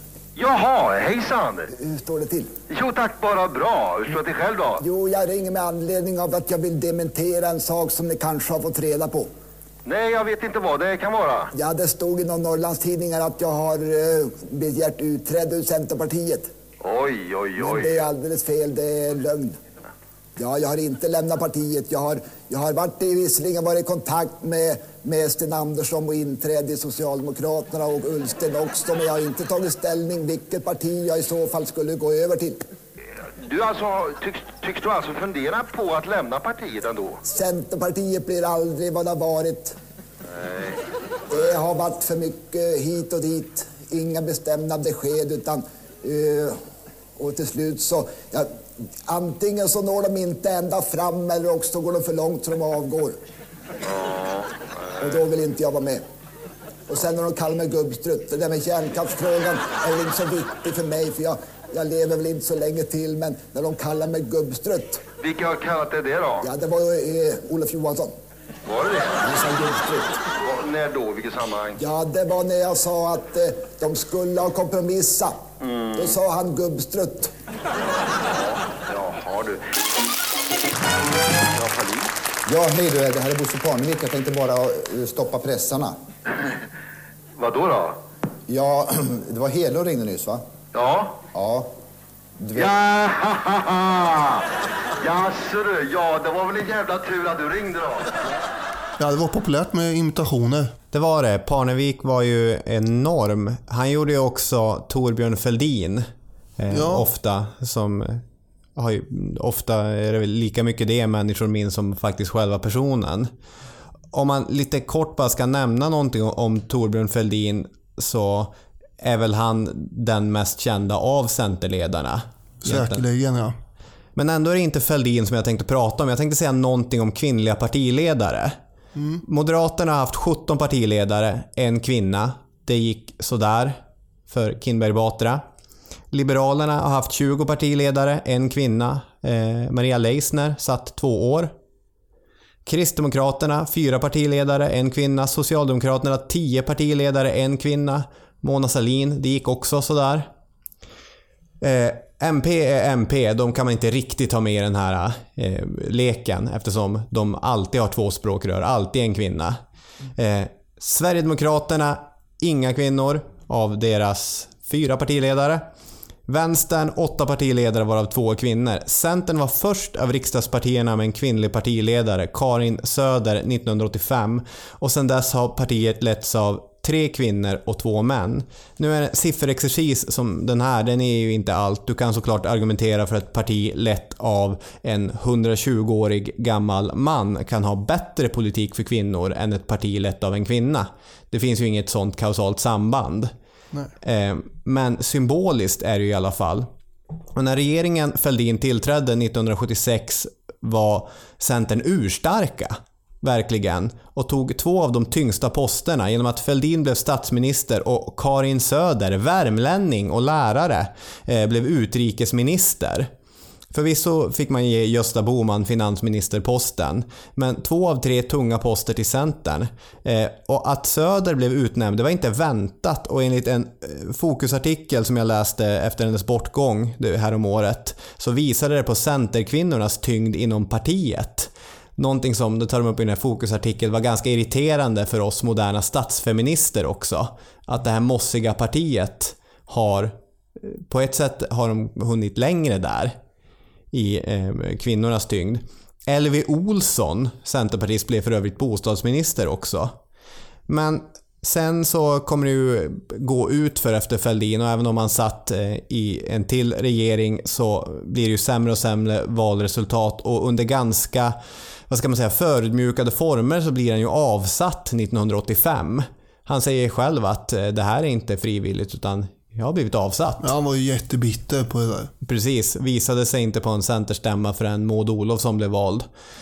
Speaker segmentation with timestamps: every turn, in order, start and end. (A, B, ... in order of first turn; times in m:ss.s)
0:00.4-0:01.7 A
0:01.8-0:02.5 B
0:02.7-0:04.8 A
0:04.8-0:09.3 B
0:09.8-0:11.5 A
0:11.5-0:16.5 B
0:16.8-0:18.1 A
0:17.6-0:19.6 B
0:20.4-0:32.6 B
0:33.4-0:37.2 A
0:37.3-0:39.8 B
0:41.3-0:46.6 B
0:47.2-0:48.5 B
0:49.1-0:53.2 B
0:53.9-0:54.4 A
0:55.0-0:56.0 B
0:56.9-1:05.0 B
1:05.2-1:06.5 A
1:06.4-1:08.1 B
1:08.7-1:09.2 A
1:09.2-1:10.2 B
1:10.4-1:11.8 A
1:11.8-1:15.4 B
1:15.6-1:16.1 A
1:16.0-1:17.3 B
1:18.9-1:19.7 A
1:21.5-1:22.1 A
1:22.5-1:26.0 C
1:27.4-1:28.0 A
1:28.5-1:30.4 C
1:30.7-1:31.2 A
1:31.3-1:31.7 C
1:32.4-1:32.7 C
1:32.6-1:34.5 A
1:35.0-1:38.1 A
1:39.0-1:40.7 D
1:40.9-1:46.1 E
1:46.6-1:48.2 E
1:46.7-1:47.1 D
1:48.8-1:53.3 E
1:54.1-2:03.0 E
2:02.6-2:03.6 D
2:04.2-2:08.6 E
2:09.0-2:09.2 D
2:09.2-2:15.4 E
2:16.1-2:21.5 E
2:22.7-2:30.3 E
2:31.6-2:39.6 E
2:40.2-2:45.7 E
2:46.3-3:13.3 E
3:14.0-3:16.7 E
3:17.4-3:33.1 E
3:33.7-4:03.2 E
4:03.9-4:10.0 E
4:10.7-4:21.4 E
4:21.9-4:30.5 E
4:30.4-4:32.1 D
4:32.2-4:36.1 E